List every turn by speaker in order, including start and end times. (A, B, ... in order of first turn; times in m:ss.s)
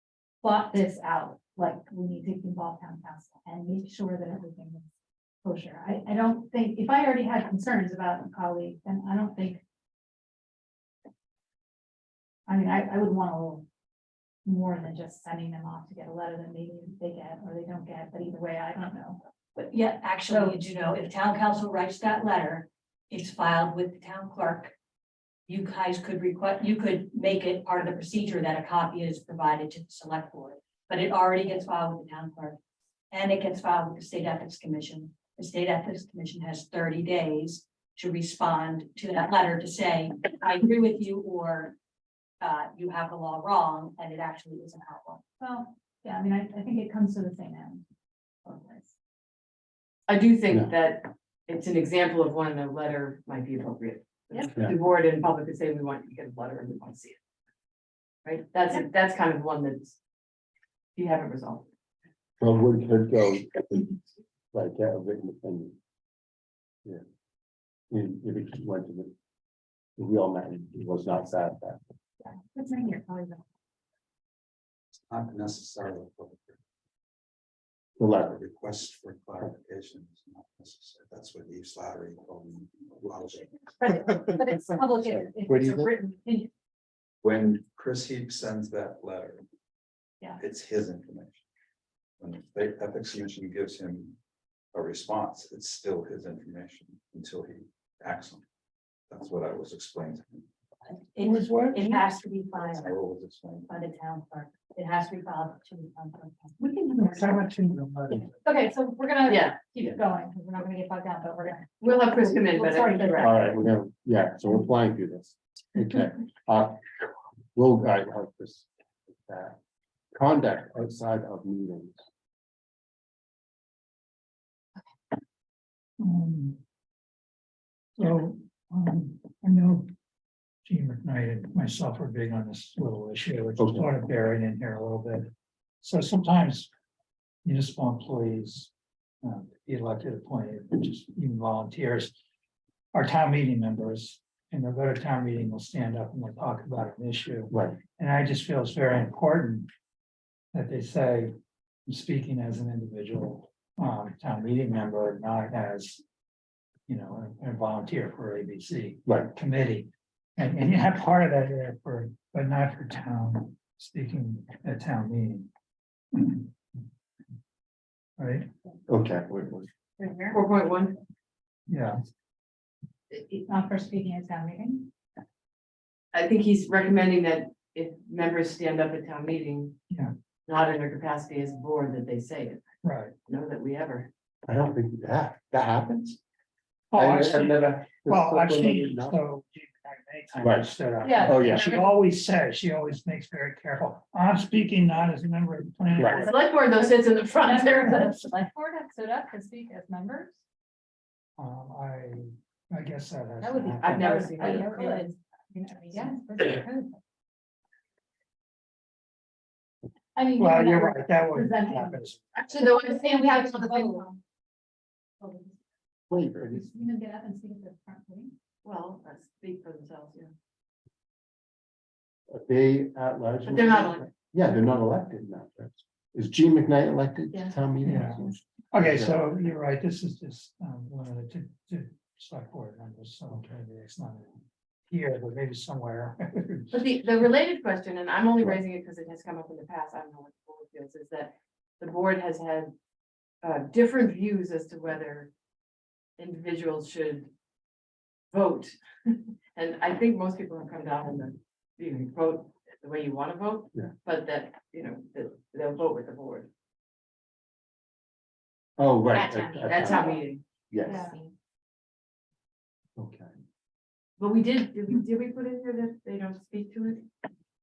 0:00.4-0:04.9 A
0:05.4-0:09.6 A
0:12.5-0:13.7 A
0:14.4-0:19.2 A
0:19.6-0:24.7 B
0:20.3-0:20.6 A
0:25.5-0:32.6 B
0:33.1-0:41.8 B
0:42.4-0:45.2 B
0:45.4-0:47.8 A
0:48.4-0:48.9 A
0:50.1-0:57.2 C
0:58.2-1:00.0 C
1:01.0-1:01.7 C
1:02.4-1:03.9 D
1:04.5-1:05.8 D
1:07.9-1:09.1 D
1:10.0-1:11.8 D
1:12.2-1:13.4 A
1:15.1-1:16.6 E
1:18.0-1:18.4 D
1:18.1-1:23.7 E
1:23.8-1:26.5 A
1:24.4-1:25.9 D
1:27.2-1:29.4 E
1:30.4-1:31.4 E
1:32.2-1:34.2 E
1:34.7-1:38.4 E
1:39.1-1:40.5 E
1:40.9-1:42.9 B
1:41.2-1:42.0 F
1:42.6-1:43.7 E
1:43.7-1:46.8 B
1:46.6-1:47.2 A
1:46.8-1:48.3 F
1:48.3-1:53.5 A
1:49.3-1:49.6 C
1:51.8-1:53.3 C
1:53.2-1:59.6 D
2:00.1-2:02.0 D
2:06.0-2:06.6 F
2:08.0-2:09.9 F
2:10.6-2:16.7 F
2:13.6-2:13.9 D
2:17.4-2:18.7 F
2:19.2-2:22.2 F
2:22.9-2:29.7 F
2:27.5-2:27.8 D
2:30.5-2:31.3 F
2:31.9-2:36.0 F
2:36.9-2:45.5 F
2:39.1-2:39.3 D
2:46.1-2:46.5 F
2:48.2-2:48.4 F
2:48.9-2:49.7 D
2:50.0-2:50.4 A
2:50.3-2:51.0 C
2:51.7-2:52.0 F
2:53.1-2:54.9 A
2:56.1-2:59.8 C
3:00.5-3:02.6 C
3:02.8-3:03.1 F
3:03.2-3:04.1 C
3:04.4-3:06.2 D
3:06.9-3:16.4 F
3:06.9-3:09.2 D
3:10.4-3:10.7 D
3:11.0-3:11.9 A
3:11.2-3:11.8 D
3:16.0-3:16.3 D
3:16.2-3:18.1 C
3:17.4-3:20.4 A
3:21.4-3:24.7 F
3:23.4-3:27.0 A
3:23.8-3:25.2 C
3:30.1-3:34.2 A
3:30.4-3:32.2 F
3:32.4-3:34.1 C
3:35.2-3:35.6 A
3:36.1-3:36.7 D
3:36.5-3:38.3 A
3:38.6-3:40.3 C
3:42.3-3:49.2 D
3:43.4-3:44.1 C
3:47.3-3:47.6 A
3:47.8-3:56.8 F
3:56.7-4:02.7 C
4:03.4-4:05.3 C
4:06.2-4:07.3 C
4:08.3-4:16.5 C
4:18.8-4:21.1 D
4:19.1-4:21.3 C
4:19.8-4:20.2 A
4:20.8-4:21.2 A
4:23.0-4:23.3 D
4:24.2-4:27.0 C